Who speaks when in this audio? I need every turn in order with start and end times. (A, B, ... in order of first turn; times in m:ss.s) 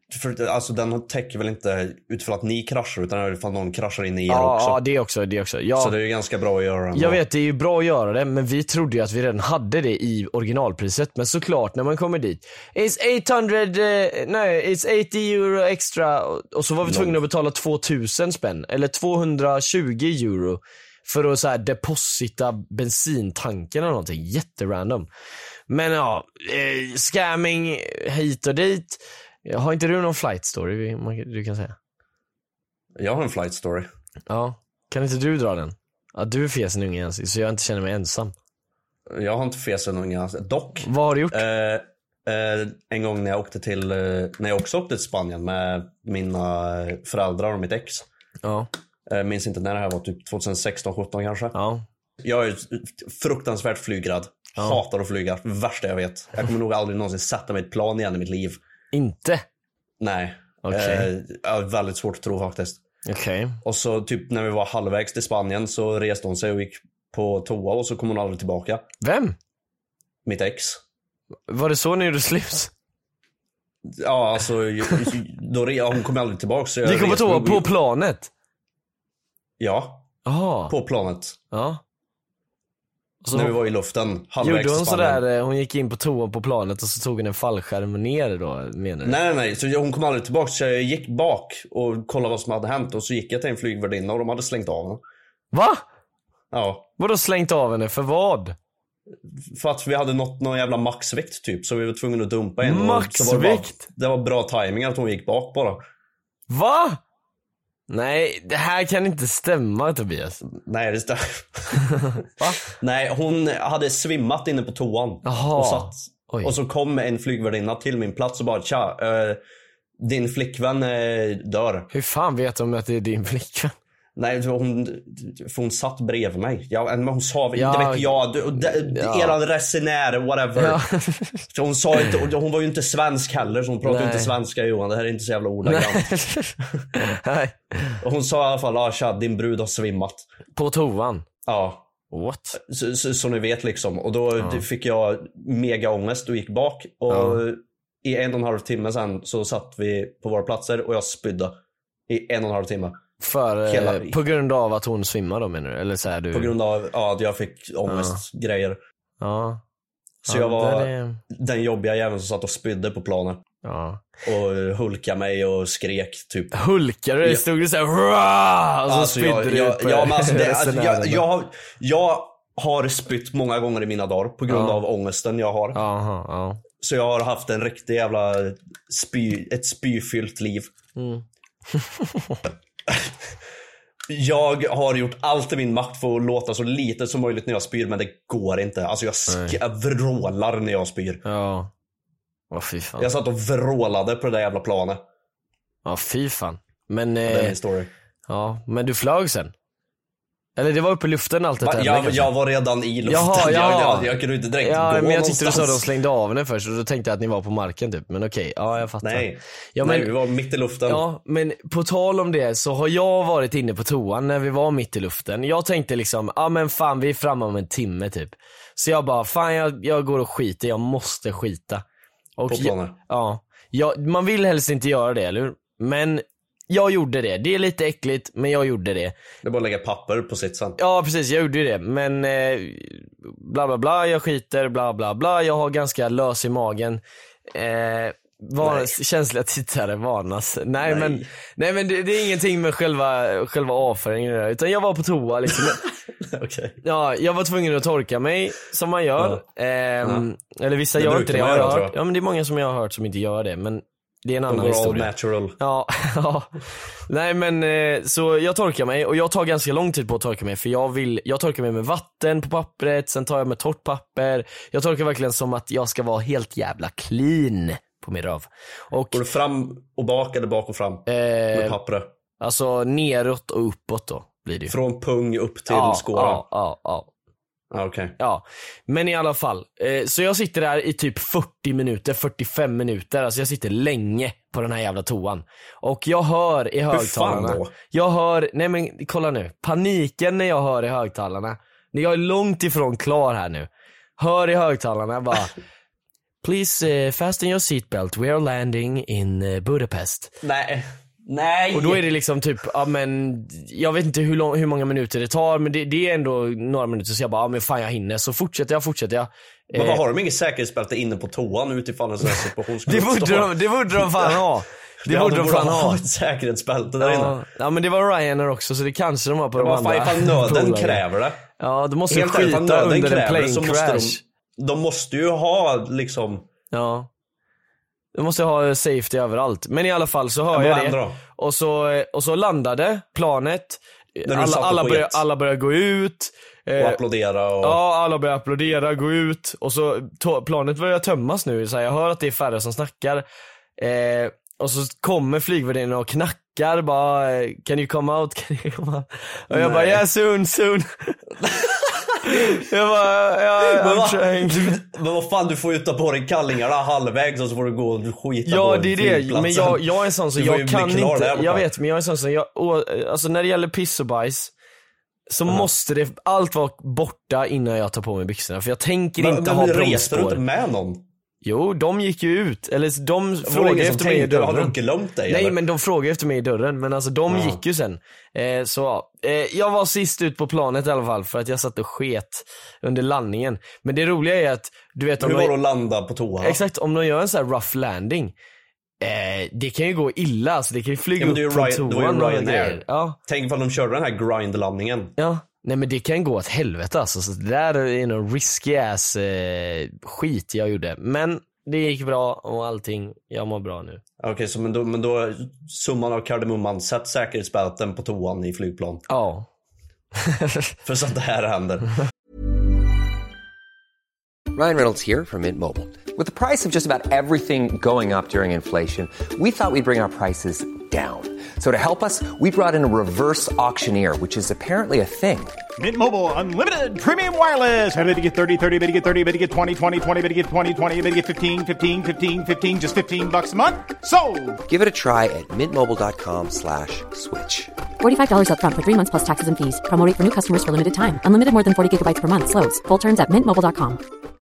0:00.1-0:04.8 A
0:04.3-0:05.9 B
0:05.8-0:07.2 A
0:06.9-0:25.1 B
0:16.8-0:17.2 A
0:25.7-0:31.8 B
0:33.0-0:33.9 A
0:34.3-0:38.3 B
0:39.1-0:48.1 A
0:40.8-0:41.4 B
0:48.4-0:48.7 B
0:49.1-0:51.6 A
0:51.6-0:51.8 B
0:52.2-0:58.6 A
0:58.9-0:59.4 B
1:00.0-1:02.8 A
1:00.6-1:01.1 B
1:03.1-1:03.6 B
1:03.6-1:08.9 A
1:09.0-1:09.4 B
1:10.2-1:10.8 A
1:11.5-1:12.7 B
1:14.0-1:17.7 A
1:16.8-1:18.3 B
1:19.6-1:20.1 A
1:20.2-1:20.8 B
1:20.7-1:21.4 A
1:21.5-1:21.8 B
1:23.2-1:23.6 B
1:23.3-1:25.2 A
1:24.4-1:29.2 B
1:29.0-1:35.0 A
1:35.5-1:35.8 B
1:36.5-1:36.9 A
1:37.0-1:38.6 B
1:39.5-1:45.8 A
1:42.6-1:43.8 B
1:46.5-1:47.0 B
1:47.9-1:50.4 B
1:50.6-1:52.0 A
1:52.7-1:59.4 A
1:55.2-1:56.5 B
2:00.0-2:01.9 A
2:01.9-2:03.8 B
2:04.2-2:10.8 A
2:07.6-2:09.4 B
2:10.6-2:11.4 B
2:11.5-2:16.1 A
2:13.8-2:14.4 B
2:15.6-2:18.0 B
2:18.0-2:20.3 A
2:20.6-2:21.3 B
2:21.5-2:21.9 A
2:22.1-2:22.6 B
2:22.6-2:31.6 A
2:27.1-2:27.4 B
2:32.1-2:33.0 A
2:33.2-2:36.5 B
2:33.6-2:34.2 A
2:36.3-2:38.8 A
2:37.9-2:38.2 B
2:39.2-2:39.6 B
2:40.2-2:43.4 A
2:40.3-2:41.2 B
2:43.6-2:44.1 B
2:44.2-2:46.6 A
2:46.5-2:51.2 B
2:48.9-2:55.8 A
2:54.5-2:54.8 B
2:55.7-2:56.6 B
2:56.8-3:00.7 A
3:01.0-3:02.4 B
3:04.1-3:11.2 A
3:09.3-3:09.6 B
3:11.2-3:11.7 B
3:12.5-3:13.1 B
3:13.0-3:15.0 A
3:15.8-3:17.6 B
3:17.3-3:17.9 A
3:18.3-3:19.5 B
3:20.6-3:22.3 B
3:21.6-3:25.9 A
3:23.0-3:30.1 B
3:29.0-3:31.0 A
3:30.9-3:41.8 B
3:42.4-3:49.2 B
3:42.5-3:43.0 A
3:49.4-3:50.8 A
3:50.8-3:57.0 B
3:57.5-4:05.8 B
3:58.6-3:59.0 A
4:00.8-4:01.3 A
4:05.6-4:06.8 A
4:06.8-4:16.5 B
4:11.0-4:12.0 A
4:14.5-4:15.6 A
4:17.1-4:29.2 B
4:29.1-4:32.1 A
4:31.1-4:31.8 B
4:32.4-4:34.8 B
4:34.7-4:36.4 A
4:35.7-4:37.1 B
4:37.7-4:38.2 A
4:38.2-4:55.5 B
4:46.9-4:47.7 A
4:56.4-5:00.3 B
5:00.4-5:02.1 A
5:01.7-5:10.0 B
5:09.7-5:14.5 A
5:12.9-5:16.0 B
5:15.0-5:17.4 A
5:17.0-5:21.0 B
5:19.6-5:21.4 A
5:21.6-5:24.2 B
5:22.1-5:26.5 A
5:26.7-5:27.1 B
5:28.2-5:37.0 B
5:30.5-5:31.2 A
5:34.2-5:35.2 A
5:36.8-5:37.8 A
5:37.6-5:43.2 B
5:43.8-5:51.2 B
5:49.5-5:50.0 A
5:51.4-5:52.2 A
5:52.3-5:54.8 B
5:53.6-6:01.7 A
5:58.5-6:04.5 B
6:05.3-6:10.4 B
6:09.2-6:11.0 A
6:11.4-6:14.7 B
6:13.4-6:15.6 A
6:15.3-6:25.6 B
6:17.3-6:17.6 A
6:25.2-6:26.6 A
6:26.4-6:28.3 B
6:29.0-6:33.2 B
6:31.2-6:35.1 A
6:35.2-6:44.0 B
6:44.2-6:49.0 A
6:49.1-6:49.5 B
6:50.2-6:50.6 B
6:50.8-6:52.0 A
6:54.5-7:05.6 C
7:05.8-7:14.6 D
7:14.7-7:17.7 C
7:18.0-7:24.0 E